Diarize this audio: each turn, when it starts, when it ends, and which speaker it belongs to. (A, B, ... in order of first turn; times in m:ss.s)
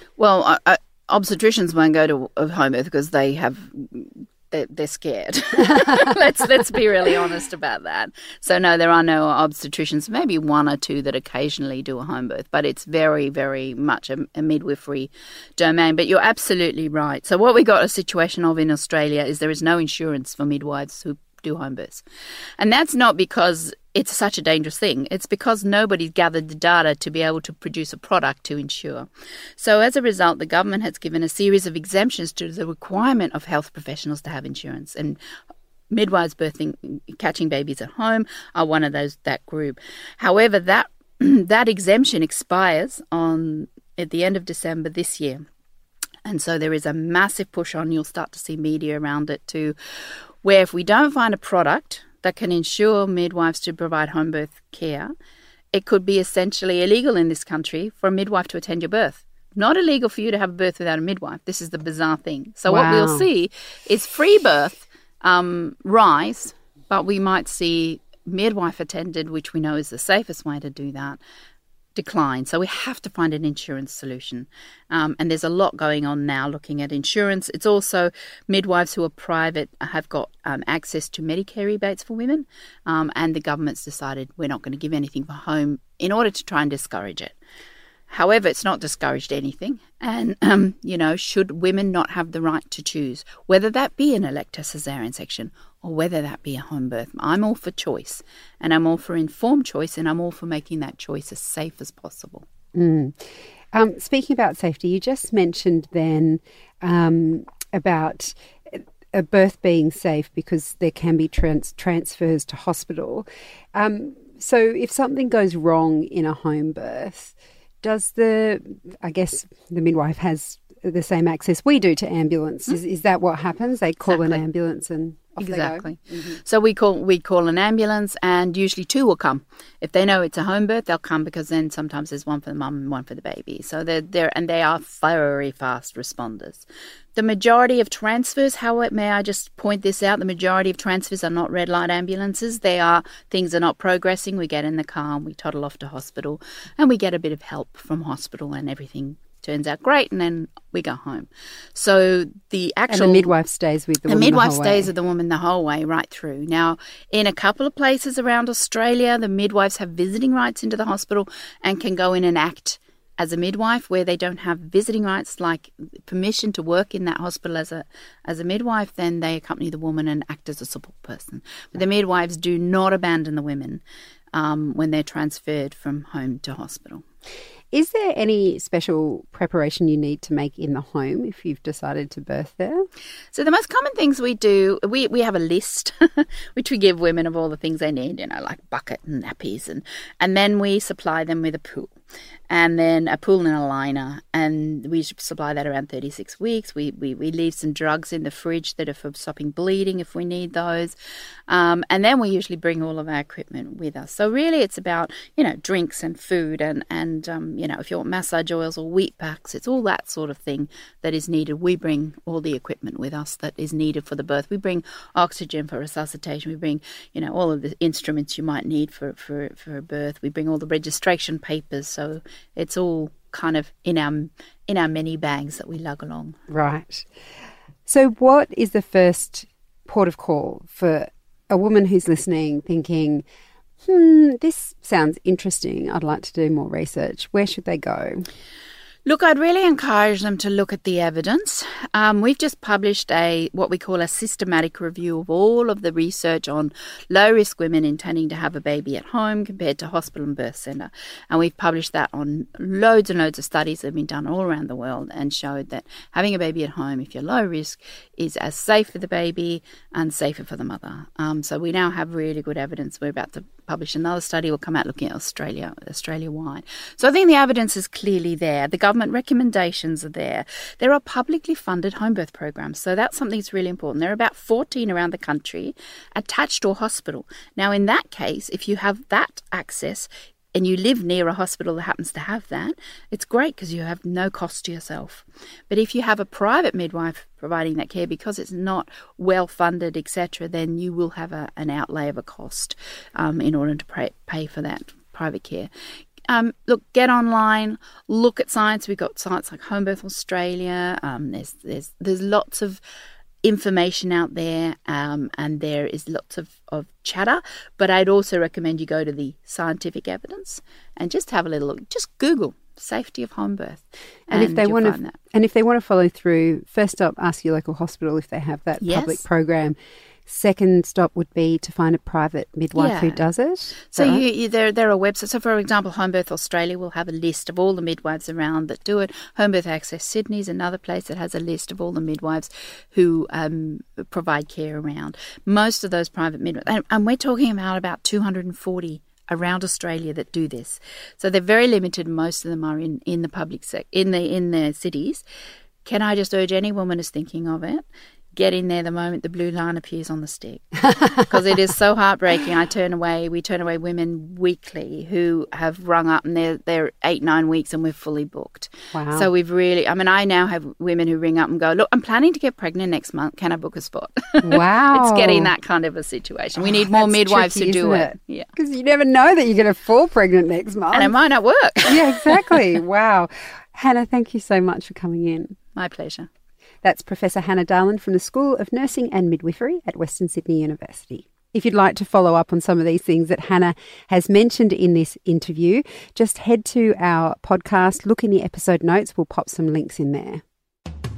0:00.2-0:22.0 A
0:22.6-0:35.2 A
0:35.9-0:45.4 A
0:46.2-0:49.8 A
0:50.4-0:55.1 A
0:55.7-1:11.2 A
1:02.7-1:03.3 B
1:12.0-1:27.4 A
1:28.1-1:42.5 A
1:42.7-2:06.4 B
2:04.0-2:04.4 A
2:05.4-2:33.3 A
2:32.9-2:34.9 B
2:34.1-2:53.8 A
2:54.3-2:57.0 A
2:57.7-3:02.9 B
3:03.3-3:11.9 A
3:12.5-3:21.0 A
3:21.5-3:46.4 A
3:46.5-3:47.1 B
3:47.9-3:53.2 B
3:53.8-3:58.2 B
3:59.0-4:55.7 A
4:56.3-5:02.8 A
5:03.4-5:15.2 A
5:14.3-5:24.2 B
5:18.8-5:19.2 A
5:22.7-5:23.2 A
5:23.9-5:45.2 A
5:45.8-5:47.8 A
5:48.4-6:08.5 A
5:58.9-5:59.3 B
6:04.4-6:05.5 B
6:06.6-6:11.2 B
6:10.9-6:12.7 A
6:11.8-6:15.6 B
6:15.8-6:16.3 A
6:16.8-6:30.4 B